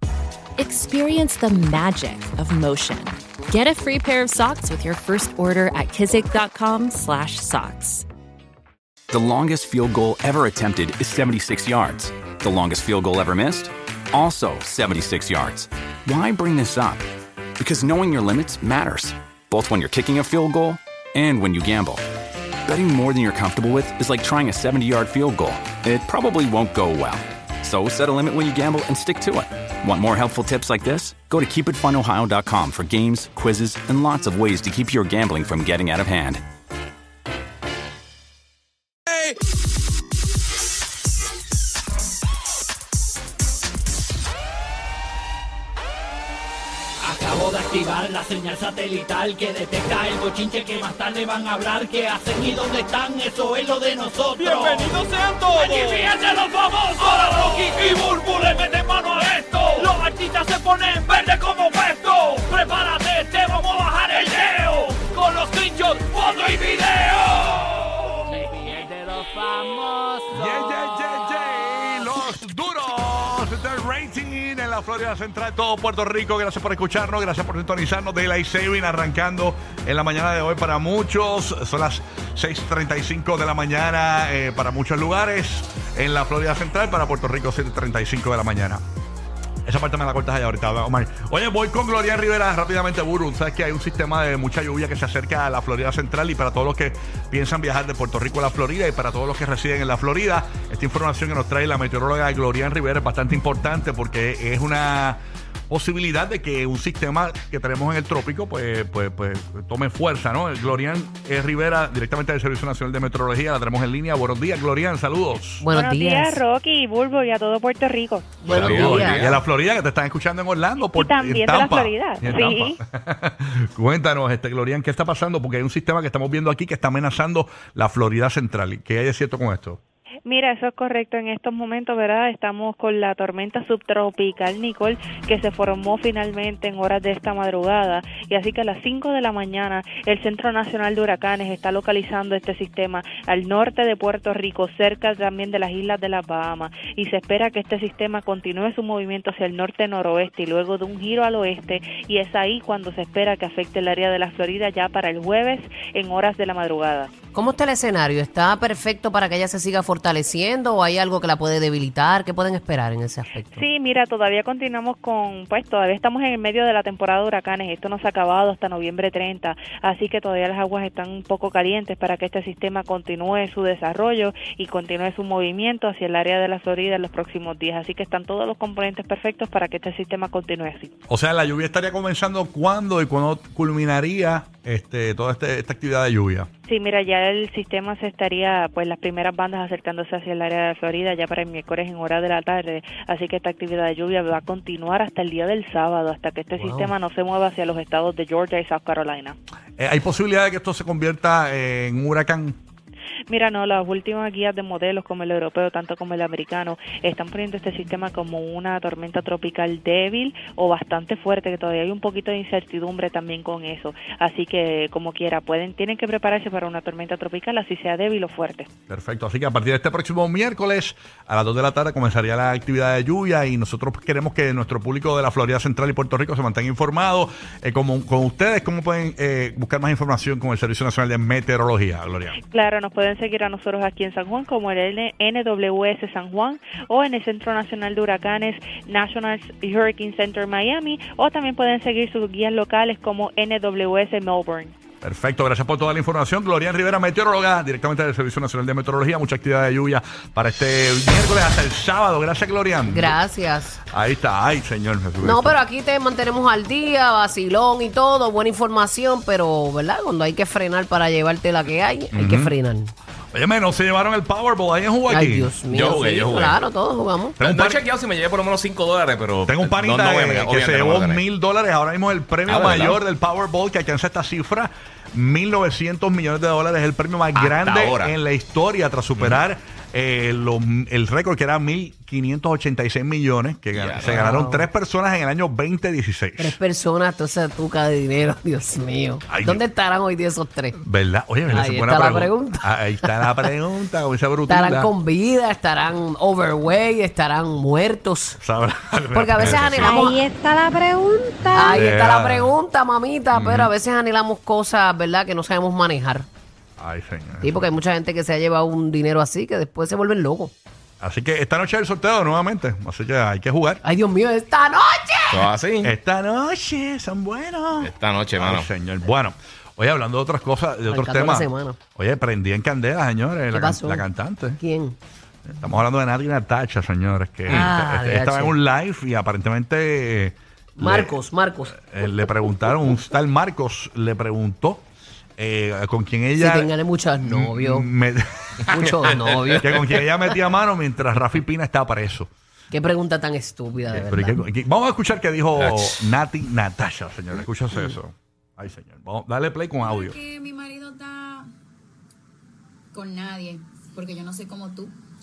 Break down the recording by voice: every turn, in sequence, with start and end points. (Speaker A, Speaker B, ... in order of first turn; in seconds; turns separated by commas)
Speaker A: 0.6-8.1, Speaker B: 9.1-17.1, Speaker B: 17.6-22.0, Speaker B: 22.7-36.4, Speaker C: 47.0-71.6, Speaker D: 70.3-88.8, Speaker D: 89.7-115.6, Speaker E: 115.6-116.4, Speaker F: 115.7-118.4, Speaker E: 118.4-119.3, Speaker G: 118.5-119.4, Speaker D: 118.5-129.8, Speaker F: 120.8-122.8, Speaker F: 130.3-157.1, Speaker E: 157.3-163.6, Speaker F: 163.6-180.9, Speaker D: 181.1-186.5, Speaker F: 186.7-199.4, Speaker D: 196.6-196.9, Speaker D: 199.8-202.6, Speaker F: 203.3-218.7, Speaker D: 218.9-232.4, Speaker F: 232.4-244.8, Speaker D: 245.0-253.2, Speaker E: 252.9-253.8, Speaker D: 253.9-255.6, Speaker E: 255.2-262.9, Speaker D: 262.1-262.5, Speaker D: 263.3-265.5, Speaker E: 265.1-267.4, Speaker G: 265.7-266.6, Speaker D: 267.4-267.8, Speaker G: 267.4-271.2, Speaker D: 269.5-286.6, Speaker G: 272.5-273.0, Speaker G: 277.3-278.1, Speaker G: 283.7-284.2, Speaker E: 284.0-284.6, Speaker E: 286.4-290.8, Speaker D: 289.3-289.6, Speaker D: 290.8-294.9, Speaker E: 291.5-293.5, Speaker E: 294.5-298.4, Speaker D: 298.4-300.0, Speaker E: 299.1-300.2, Speaker H: 299.8-301.8, Speaker E: 301.5-306.3, Speaker D: 301.7-302.6, Speaker D: 303.3-303.7, Speaker D: 306.8-307.6, Speaker E: 307.4-310.5, Speaker D: 311.0-313.8, Speaker E: 313.8-315.5, Speaker G: 315.3-315.9, Speaker D: 315.8-324.6, Speaker G: 317.8-318.7, Speaker E: 320.9-321.8, Speaker E: 323.5-324.1, Speaker E: 324.6-325.0, Speaker D: 325.5-331.1, Speaker E: 327.5-328.5, Speaker E: 330.8-332.3, Speaker D: 331.7-334.9, Speaker D: 335.4-336.7, Speaker E: 336.4-337.9, Speaker D: 337.2-338.7, Speaker E: 338.7-339.8, Speaker G: 339.2-339.6, Speaker D: 339.6-342.3, Speaker E: 342.7-344.4, Speaker D: 343.9-350.2, Speaker G: 345.6-346.0, Speaker I: 349.8-351.5, Speaker I: 352.9-354.9